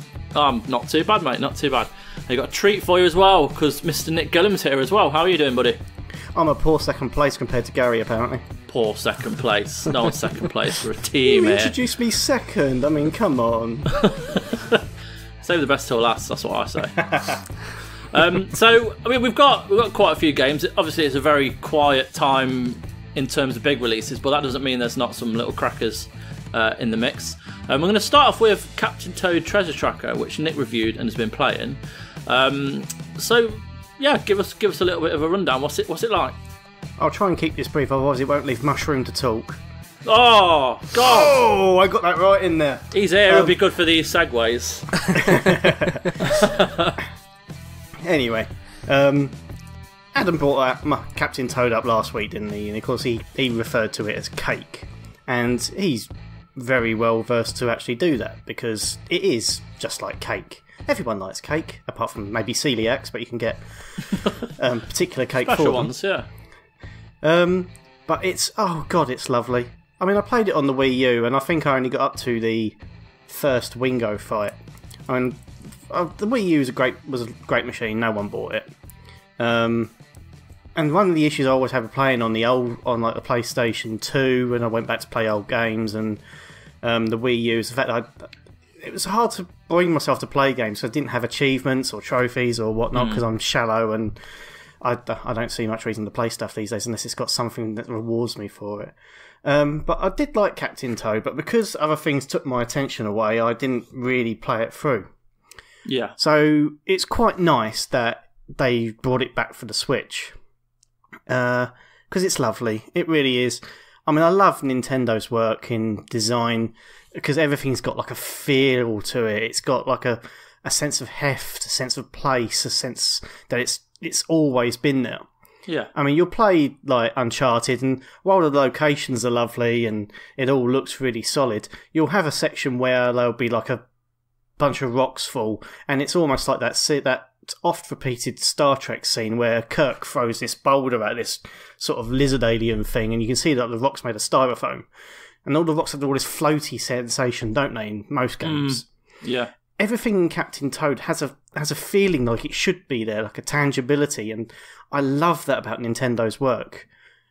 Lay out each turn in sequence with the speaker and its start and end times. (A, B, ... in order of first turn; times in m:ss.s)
0:00.3-0:05.8 A
0:06.3-0:08.4 B
0:08.7-0:11.7 A
0:11.2-0:14.0 B
0:14.0-0:14.8 A
0:15.4-0:17.1 A
0:18.1-0:36.4 A
0:37.0-0:39.6 B
0:40.0-0:41.3 A
0:41.0-0:43.6 B
0:42.9-0:45.5 A
0:45.1-0:46.3 B
0:46.2-0:46.9 A
0:48.0-0:49.3 B
0:50.1-1:05.9 B
1:05.4-1:06.3 A
1:07.2-1:14.5 B
1:15.1-1:18.7 B
1:19.4-1:19.9 B
1:20.8-1:26.2 B
1:26.8-1:28.3 B
1:28.8-1:34.2 B
1:32.9-1:33.2 A
1:34.8-1:45.1 B
1:45.8-1:46.1 A
1:46.2-1:50.4 B
1:51.3-2:05.2 B
2:05.9-2:13.8 B
2:14.6-2:24.8 B
2:25.4-2:28.8 B
2:28.4-2:29.5 A
2:29.8-2:36.9 B